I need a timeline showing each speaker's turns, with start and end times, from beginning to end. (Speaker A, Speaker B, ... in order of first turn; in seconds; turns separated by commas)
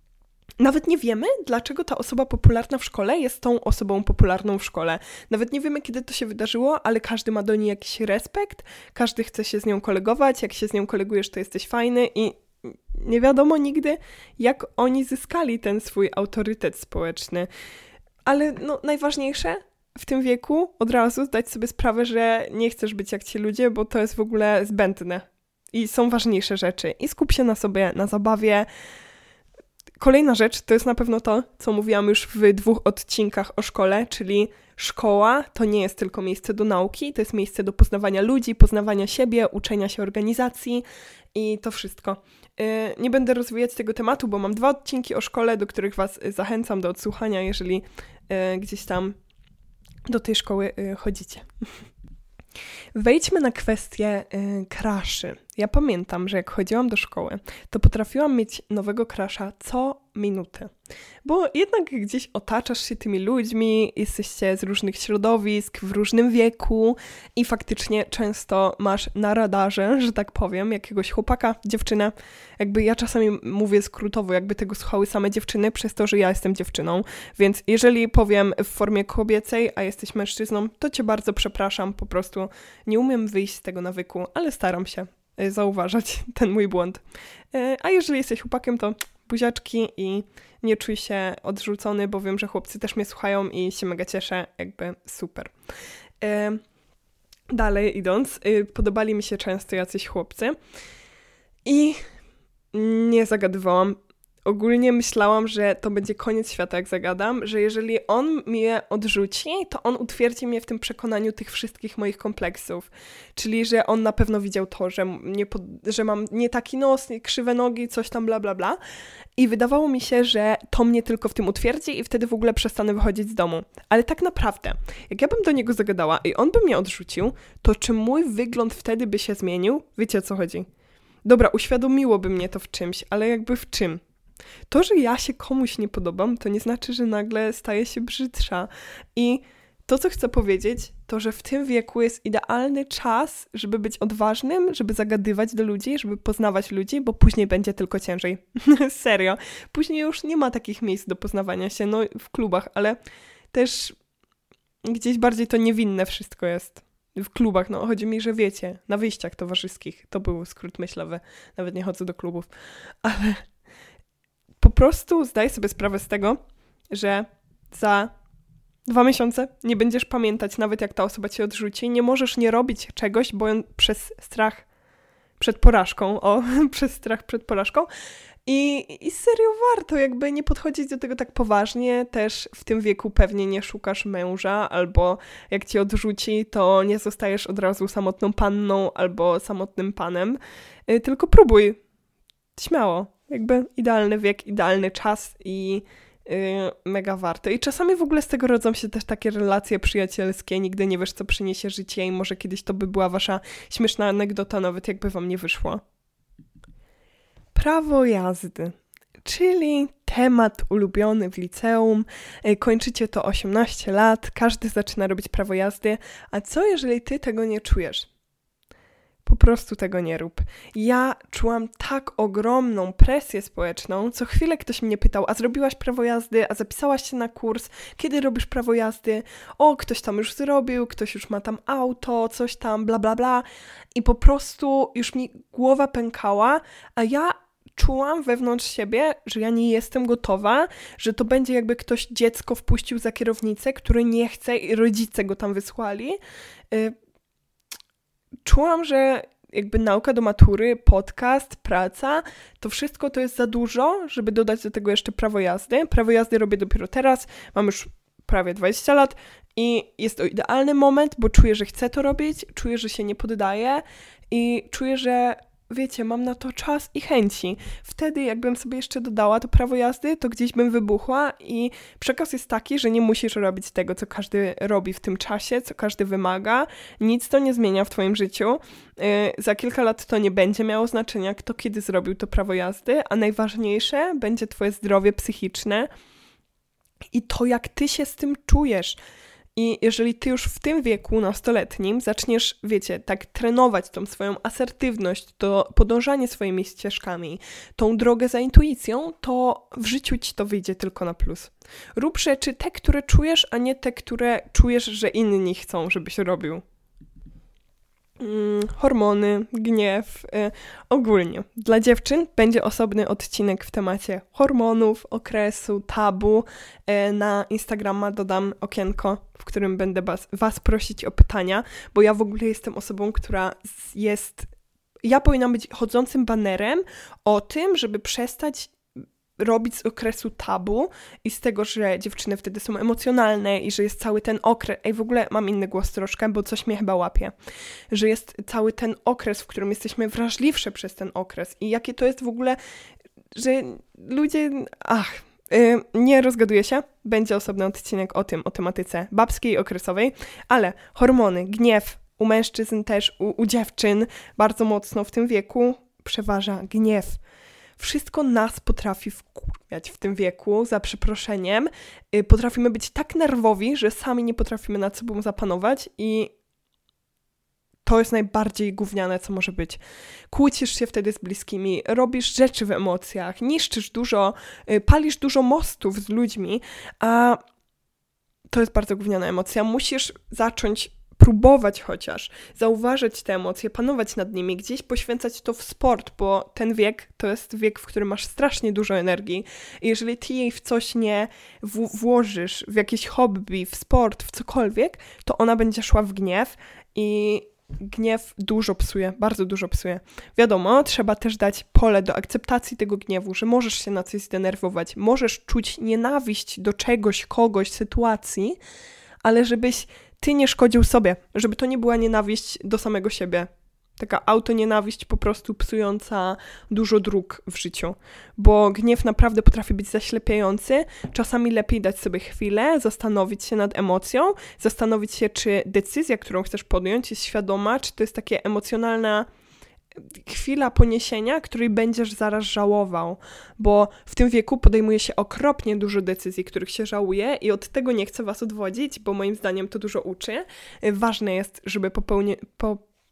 Speaker A: 0.6-17.5, Speaker A: 18.2-28.7, Speaker A: 30.0-49.2, Speaker A: 50.1-51.5, Speaker A: 53.0-60.7, Speaker A: 61.2-95.5, Speaker A: 96.2-96.6, Speaker A: 97.5-100.6, Speaker A: 101.7-102.0, Speaker A: 102.7-118.8, Speaker A: 119.4-130.7, Speaker A: 131.2-134.0, Speaker A: 134.7-153.0, Speaker A: 153.5-154.0, Speaker A: 154.8-162.5, Speaker A: 163.0-163.4, Speaker A: 164.6-166.4, Speaker A: 166.9-168.1, Speaker A: 168.9-174.7, Speaker A: 175.4-177.9, Speaker A: 178.5-191.8, Speaker A: 192.6-205.8, Speaker A: 207.5-218.1, Speaker A: 219.2-246.2, Speaker A: 248.4-285.9, Speaker A: 287.1-289.0, Speaker A: 289.6-306.6, Speaker A: 308.2-324.5, Speaker A: 325.0-328.8, Speaker A: 329.4-337.3, Speaker A: 337.9-342.6, Speaker A: 343.4-357.2, Speaker A: 357.8-366.3, Speaker A: 367.8-369.8, Speaker A: 370.3-377.4, Speaker A: 378.5-408.6, Speaker A: 409.2-429.3, Speaker A: 430.1-442.8